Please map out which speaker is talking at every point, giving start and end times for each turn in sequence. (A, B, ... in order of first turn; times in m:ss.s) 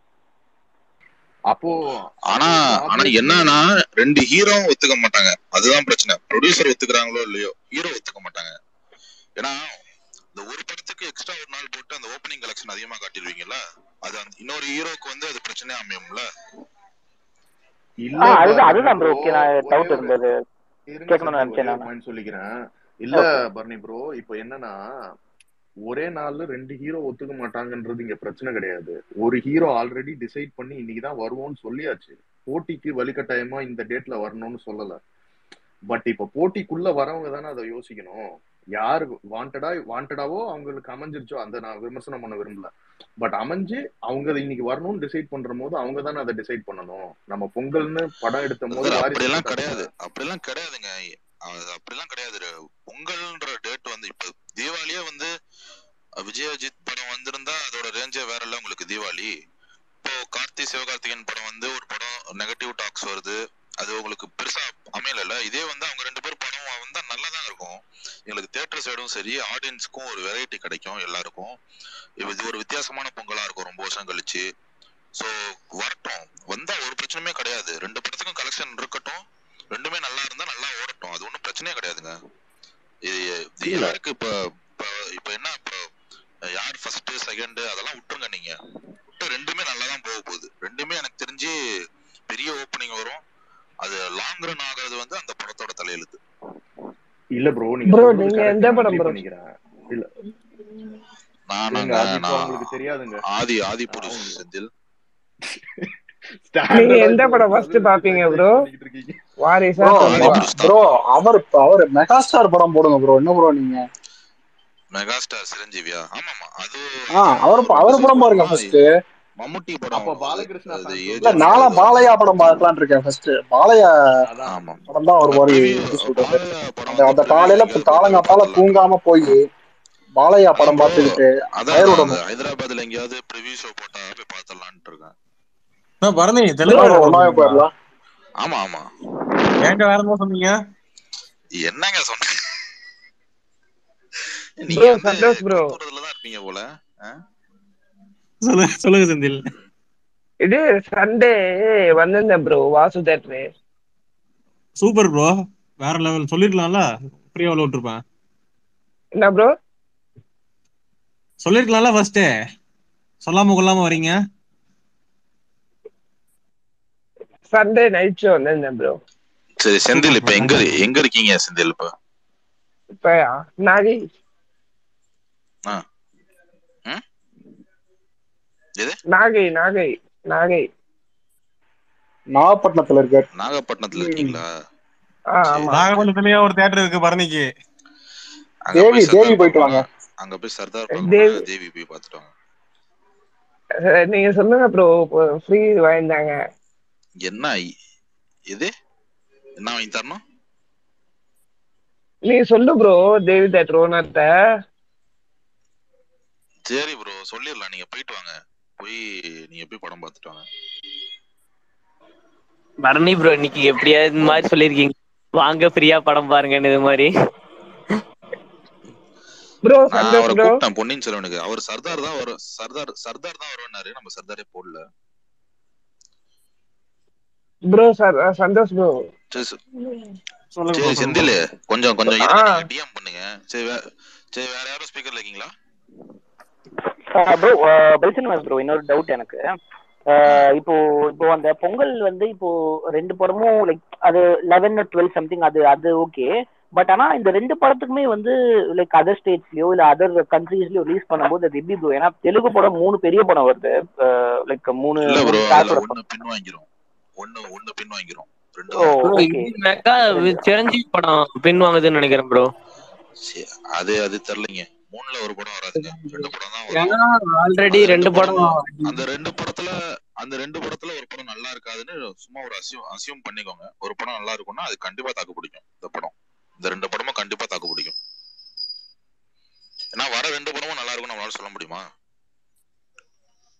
0:01.5-0:03.6 A
0:02.3-0:08.5 B
0:10.3-0:16.2 B
0:18.0-0:20.2 A
0:18.2-0:20.3 C
0:20.9-0:22.5 A
0:21.1-0:21.9 C
0:23.0-0:24.8 A
0:25.9-0:35.0 A
0:35.9-0:38.2 A
0:38.8-0:49.9 A
0:48.7-0:50.9 B
0:51.5-0:55.3 B
0:56.2-0:59.3 B
1:00.0-1:11.6 B
1:12.2-1:14.4 B
1:15.2-1:22.1 B
1:23.1-1:25.8 B
1:23.6-1:23.9 A
1:26.6-1:28.5 B
1:29.2-1:31.5 B
1:32.3-1:33.2 B
1:33.8-1:36.2 B
1:37.4-1:40.1 A
1:37.9-1:39.2 D
1:41.5-1:42.7 B
1:41.7-1:43.2 A
1:43.3-1:44.7 B
1:43.9-1:44.4 A
1:45.5-1:45.9 A
1:46.4-1:49.2 A
1:46.7-1:48.5 D
1:49.4-1:50.5 D
1:49.8-1:53.8 E
1:49.9-1:50.8 B
1:54.9-1:58.7 B
1:57.1-1:58.9 E
1:59.4-2:02.6 B
1:59.9-2:02.0 A
2:01.2-2:03.9 E
2:04.2-2:04.8 A
2:04.5-2:08.8 B
2:04.9-2:09.4 E
2:10.2-2:12.2 E
2:10.6-2:15.1 B
2:16.0-2:17.6 F
2:16.6-2:17.7 E
2:18.4-2:19.5 B
2:19.6-2:20.5 F
2:21.6-2:22.2 B
2:24.6-2:27.2 B
2:24.7-2:25.7 D
2:28.4-2:29.4 F
2:30.4-2:31.3 D
2:32.0-2:33.4 D
2:34.8-2:38.0 F
2:39.2-2:39.5 D
2:41.4-2:42.3 F
2:43.2-2:44.1 F
2:47.5-2:49.0 D
2:49.6-2:51.9 B
2:50.0-2:50.7 F
2:53.0-2:54.0 D
2:59.1-3:00.6 D
3:02.3-3:03.2 E
3:03.4-3:04.5 B
3:05.4-3:05.8 D
3:05.5-3:05.9 B
3:05.7-3:07.5 F
3:08.7-3:12.3 B
3:08.7-3:09.8 E
3:10.9-3:11.4 D
3:13.9-3:16.3 D
3:17.2-3:17.6 B
3:19.6-3:20.2 B
3:22.3-3:24.3 D
3:26.7-3:30.4 B
3:32.8-3:37.1 G
3:39.6-3:40.5 D
3:39.9-3:44.8 B
3:47.7-3:49.0 D
3:49.3-3:49.6 B
3:50.5-3:51.3 F
3:50.7-3:53.8 B
3:52.1-3:52.6 D
3:54.3-3:55.5 B
3:57.1-3:59.4 C
4:00.1-4:15.9 C
4:15.0-4:16.7 B
4:17.2-4:19.0 B
4:18.7-4:19.5 C
4:19.0-4:22.5 G
4:20.1-4:20.4 C
4:23.2-4:27.0 B
4:25.8-4:29.0 G
4:27.7-4:37.9 B
4:40.0-4:41.8 B